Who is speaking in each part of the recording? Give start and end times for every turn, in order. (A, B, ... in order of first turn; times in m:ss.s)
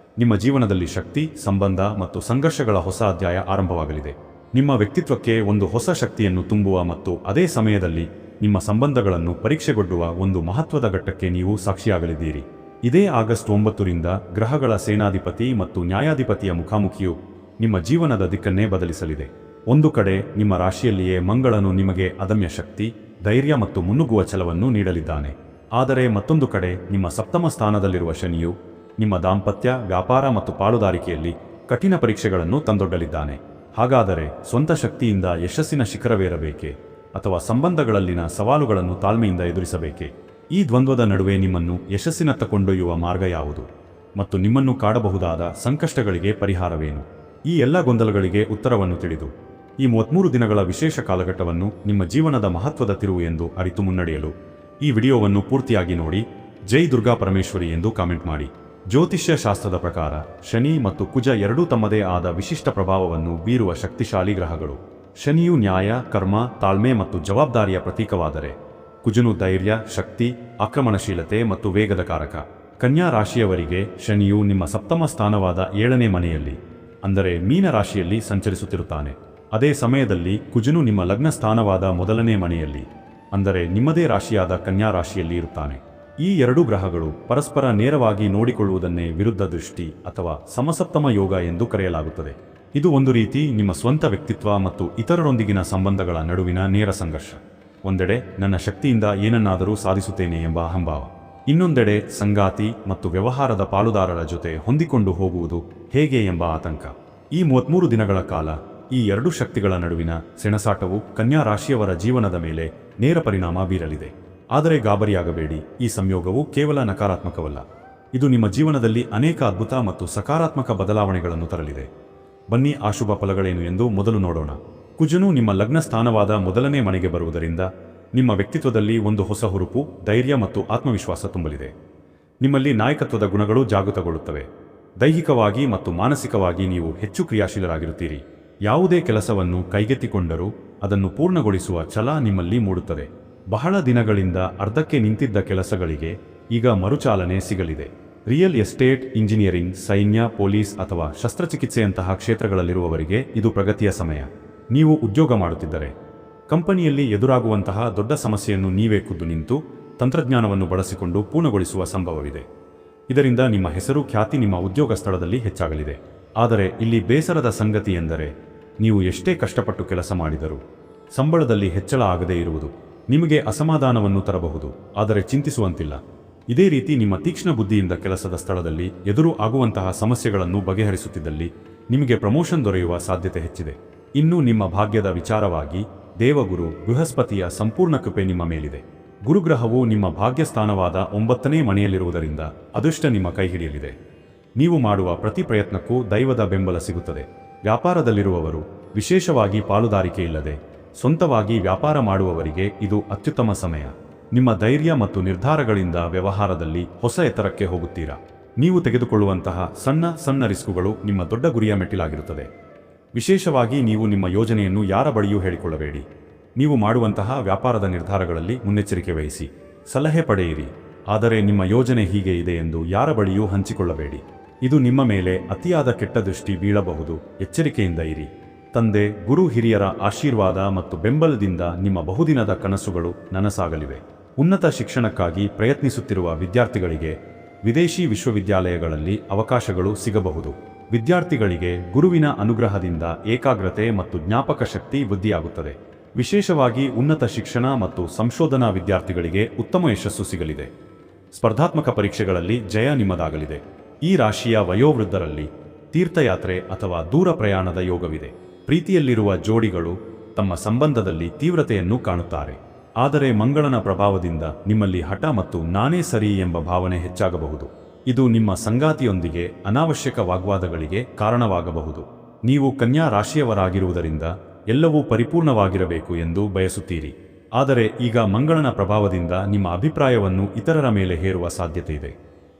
0:00.2-1:57.6 A
1:58.1-2:01.9 A
2:02.5-2:11.7 A
2:12.4-2:14.5 A
2:15.0-2:35.9 A
2:36.5-2:42.4 A
2:43.1-2:50.6 A
2:51.2-3:14.0 A
3:14.6-3:32.5 A
3:33.2-3:36.0 A
3:36.6-4:10.7 A
4:11.3-4:42.2 A